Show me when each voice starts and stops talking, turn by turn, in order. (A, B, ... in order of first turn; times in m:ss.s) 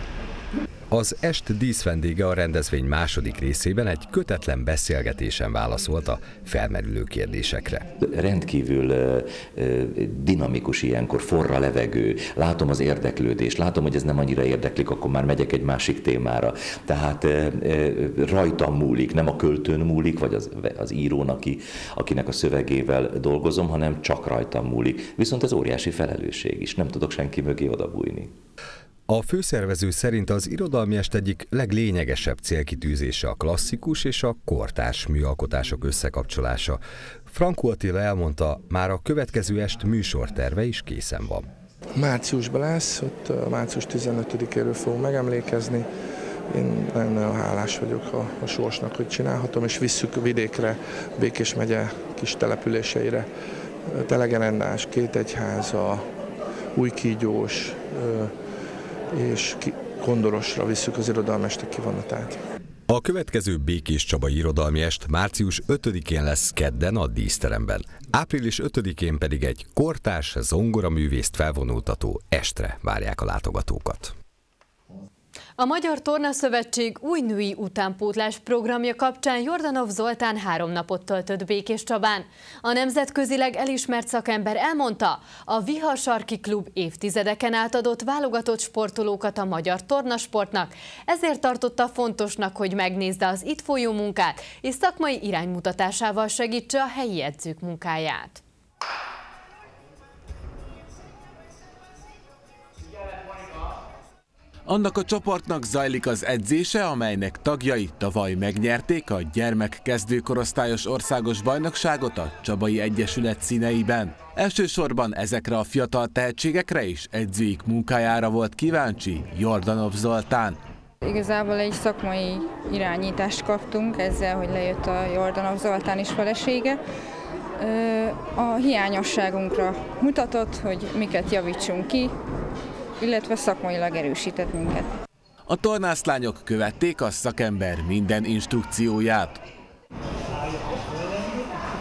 0:00.9-0:07.9 A
0:08.0-0:28.4 B
0:29.1-0:41.5 A
0:42.0-0:45.9 C
0:46.5-0:53.3 C
0:53.9-0:56.0 C
0:56.8-0:58.3 C
0:59.2-1:02.4 C
1:02.9-1:14.2 A
1:15.6-1:38.4 D
1:44.7-2:00.6 E
2:01.0-2:06.8 F
2:07.6-2:12.1 F
2:13.0-2:14.9 F
2:15.5-2:19.4 E